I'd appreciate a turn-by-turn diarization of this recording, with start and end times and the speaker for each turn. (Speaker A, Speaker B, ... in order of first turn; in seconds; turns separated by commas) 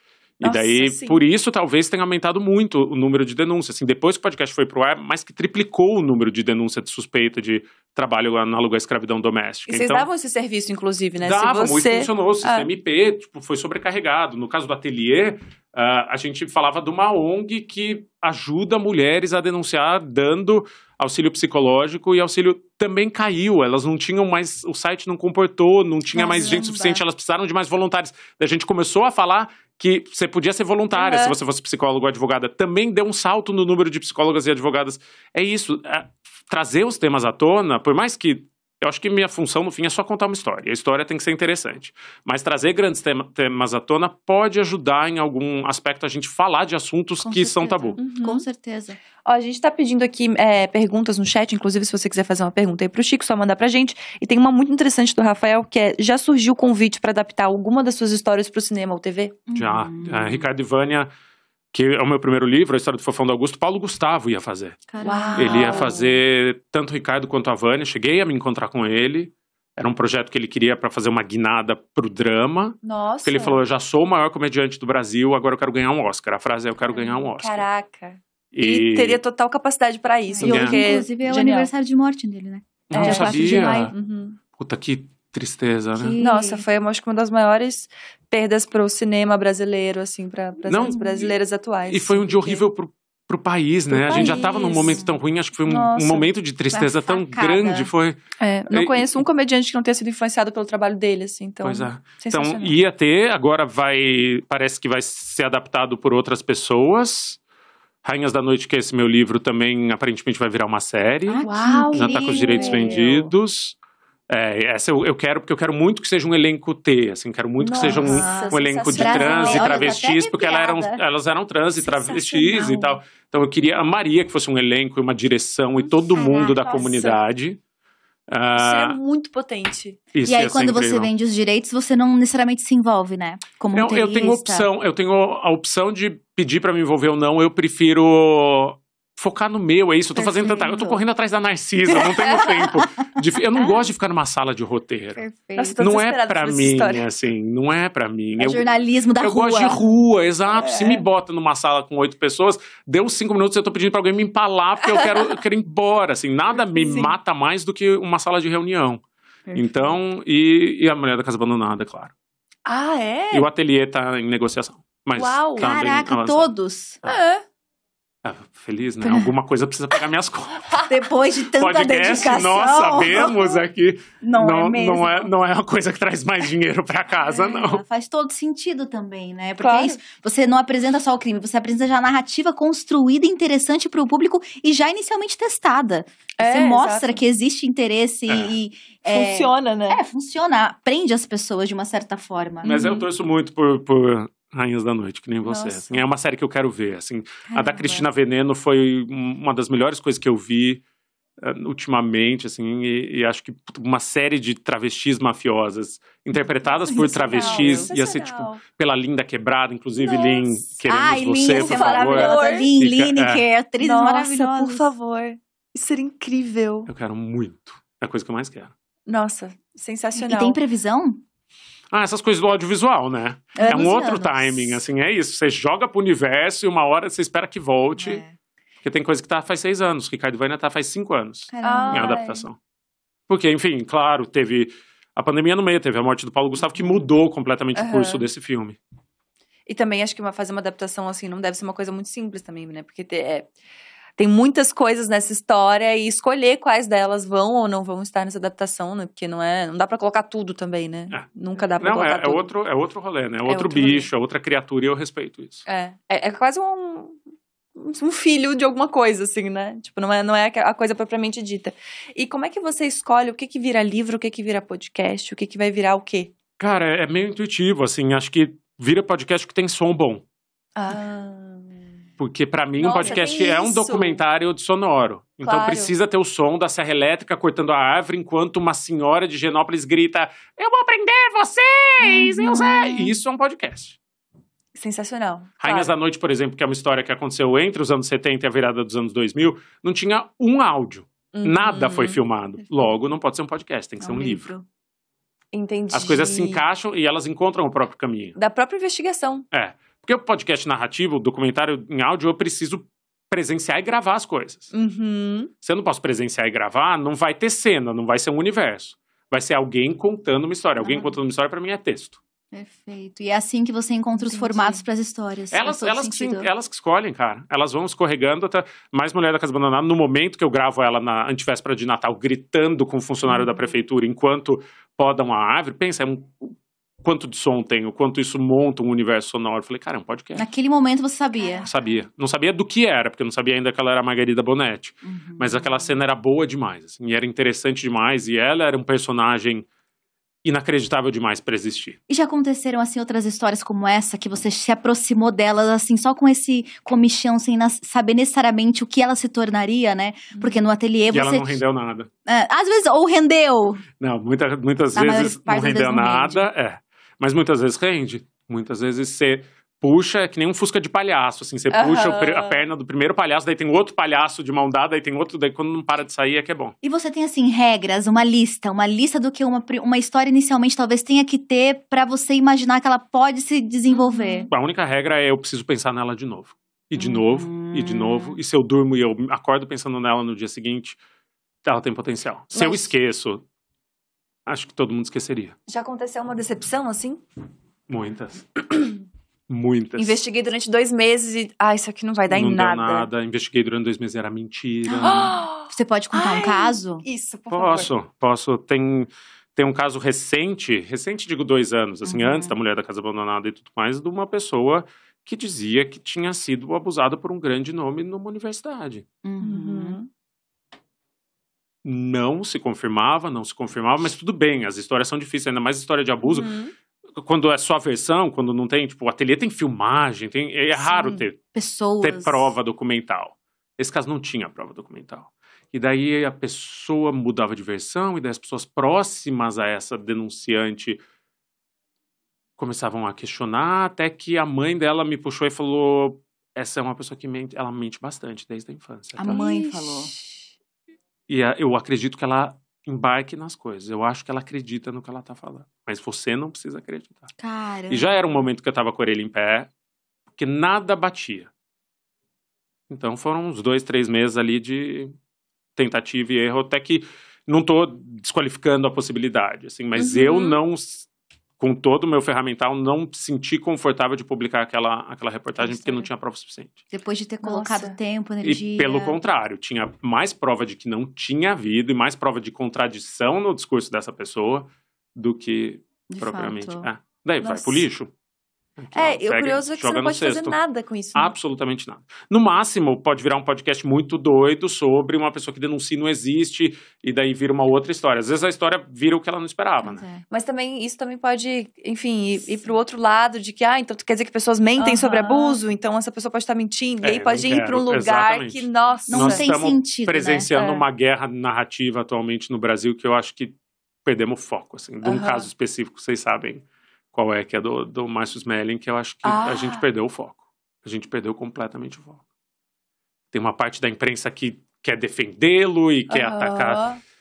Speaker A: 0.4-10.1, Speaker B: 0.4-1.2, Speaker B: 9.7-12.7, Speaker A: 11.2-48.0, Speaker C: 26.1-27.0, Speaker B: 30.9-31.4, Speaker C: 47.2-49.0, Speaker B: 48.0-48.4, Speaker B: 49.2-59.4, Speaker C: 59.5-60.5, Speaker A: 59.5-61.1, Speaker A: 61.7-64.8, Speaker C: 64.9-66.0, Speaker B: 65.0-66.1, Speaker A: 65.3-77.7, Speaker B: 72.8-73.6, Speaker B: 77.3-81.7, Speaker A: 78.5-79.2, Speaker C: 80.4-83.9, Speaker A: 80.4-80.8, Speaker A: 82.9-83.9, Speaker B: 82.9-84.4, Speaker A: 84.5-86.2, Speaker C: 86.0-86.7, Speaker B: 86.2-92.6, Speaker A: 90.7-91.3, Speaker C: 90.8-91.2, Speaker A: 91.9-98.2, Speaker B: 93.9-95.0, Speaker C: 94.1-95.2, Speaker B: 95.6-96.3, Speaker C: 96.7-97.9, Speaker B: 98.4-102.8, Speaker A: 98.7-99.2, Speaker A: 101.6-107.4, Speaker A: 108.0-113.8, Speaker C: 111.3-113.3, Speaker B: 111.4-113.2, Speaker A: 114.3-127.6, Speaker B: 117.6-120.0, Speaker C: 117.8-121.0, Speaker B: 121.8-122.9, Speaker C: 122.4-122.8, Speaker C: 126.1-127.0, Speaker B: 126.4-127.2, Speaker A: 128.3-129.0, Speaker B: 128.5-130.0, Speaker A: 130.1-131.1, Speaker C: 130.2-134.7, Speaker A: 133.7-145.2, Speaker C: 140.1-141.0, Speaker B: 142.2-142.6, Speaker C: 142.6-143.9, Speaker C: 145.2-145.8, Speaker B: 145.6-147.0, Speaker A: 145.8-148.7, Speaker C: 148.4-149.8, Speaker A: 149.2-159.0, Speaker B: 150.7-151.0, Speaker B: 154.9-155.3, Speaker B: 156.6-157.1, Speaker C: 159.5-160.0, Speaker A: 159.5-162.1, Speaker B: 162.7-163.5, Speaker A: 163.3-166.5, Speaker B: 165.1-165.7, Speaker C: 165.6-167.0, Speaker B: 167.0-167.4, Speaker A: 168.2-170.8, Speaker C: 169.0-169.3, Speaker C: 170.8-173.6, Speaker A: 171.6-177.8, Speaker C: 174.2-175.3, Speaker C: 177.1-192.7, Speaker B: 179.6-180.0, Speaker B: 186.4-187.2, Speaker A: 188.3-188.6, Speaker B: 189.1-190.0, Speaker B: 192.6-193.1, Speaker A: 192.6-200.8, Speaker B: 195.4-196.0, Speaker C: 197.5-198.1, Speaker A: 201.4-213.4, Speaker C: 206.4-207.9, Speaker B: 207.3-208.6, Speaker B: 210.0-210.7, Speaker C: 210.9-214.9, Speaker B: 211.5-212.7, Speaker B: 213.8-216.9, Speaker A: 216.9-218.7, Speaker B: 219.1-220.6, Speaker C: 220.2-221.2, Speaker A: 221.9-228.2, Speaker C: 223.5-224.8, Speaker C: 228.0-228.3, Speaker A: 228.8-232.6, Speaker C: 231.5-232.2, Speaker B: 231.6-232.5, Speaker A: 233.3-238.8, Speaker B: 237.7-238.2, Speaker B: 239.7-243.5, Speaker B: 244.2-252.5, Speaker A: 251.8-255.7, Speaker B: 253.4-254.1, Speaker B: 255.7-257.2, Speaker B: 257.8-266.3, Speaker A: 266.6-270.2, Speaker B: 270.8-271.9, Speaker A: 272.2-284.0, Speaker B: 272.8-274.2, Speaker B: 275.4-275.9, Speaker B: 282.1-283.1, Speaker B: 284.7-285.9, Speaker A: 285.6-294.5, Speaker B: 291.3-292.2, Speaker C: 294.0-294.6, Speaker B: 295.5-296.6, Speaker A: 295.9-298.4, Speaker B: 298.4-299.5, Speaker A: 299.5-304.7, Speaker B: 304.7-305.5, Speaker A: 305.6-312.2, Speaker C: 310.8-311.1, Speaker C: 312.5-316.5, Speaker B: 314.2-314.8, Speaker A: 315.5-330.4, Speaker C: 323.2-323.5, Speaker C: 330.4-331.7, Speaker A: 331.6-339.6, Speaker C: 335.0-336.0, Speaker A: 340.4-342.0, Speaker C: 342.1-351.6, Speaker B: 350.3-350.6, Speaker A: 351.1-352.1, Speaker C: 352.2-353.9, Speaker A: 354.0-366.7, Speaker C: 354.9-356.5, Speaker B: 361.7-362.6, Speaker C: 366.8-374.5, Speaker B: 373.9-374.5, Speaker A: 374.5-381.0, Speaker C: 377.0-378.4, Speaker A: 381.6-383.4, Speaker B: 382.6-382.8, Speaker A: 384.4-385.5, Speaker B: 385.7-387.2, Speaker A: 387.9-388.9, Speaker A: 389.5-390.2, Speaker B: 390.0-393.1, Speaker A: 392.3-395.4, Speaker C: 394.9-397.0, Speaker B: 395.0-397.9, Speaker A: 397.5-409.1, Speaker C: 402.0-402.5, Speaker C: 409.2-410.0, Speaker B: 409.4-410.1, Speaker A: 411.8-416.5, Speaker B: 416.2-416.7, Speaker A: 417.1-421.4, Speaker B: 420.8-421.2, Speaker C: 421.5-422.5, Speaker A: 422.0-431.0, Speaker A: 432.6-439.4, Speaker C: 439.2-440.1, Speaker B: 439.2-440.4, Speaker A: 441.3-447.3, Speaker C: 447.4-448.2, Speaker A: 447.9-449.7, Speaker A: 450.4-451.5, Speaker A: 452.9-455.1, Speaker A: 455.8-461.1, Speaker B: 459.9-460.6, Speaker A: 461.6-466.8, Speaker C: 465.6-466.1, Speaker C: 466.9-469.2, Speaker B: 467.4-467.9, Speaker A: 468.4-478.1, Speaker C: 476.1-476.9, Speaker B: 477.4-477.8, Speaker A: 478.8-480.6, Speaker B: 478.9-481.3, Speaker A: 481.1-490.0, Speaker C: 489.8-490.2, Speaker B: 490.3-499.4, Speaker C: 494.8-495.6, Speaker A: 497.0-512.2, Speaker C: 499.1-500.5, Speaker B: 500.5-500.8, Speaker B: 505.0-505.4, Speaker B: 509.2-509.8, Speaker A: 513.3-516.8, Speaker B: 516.1-517.0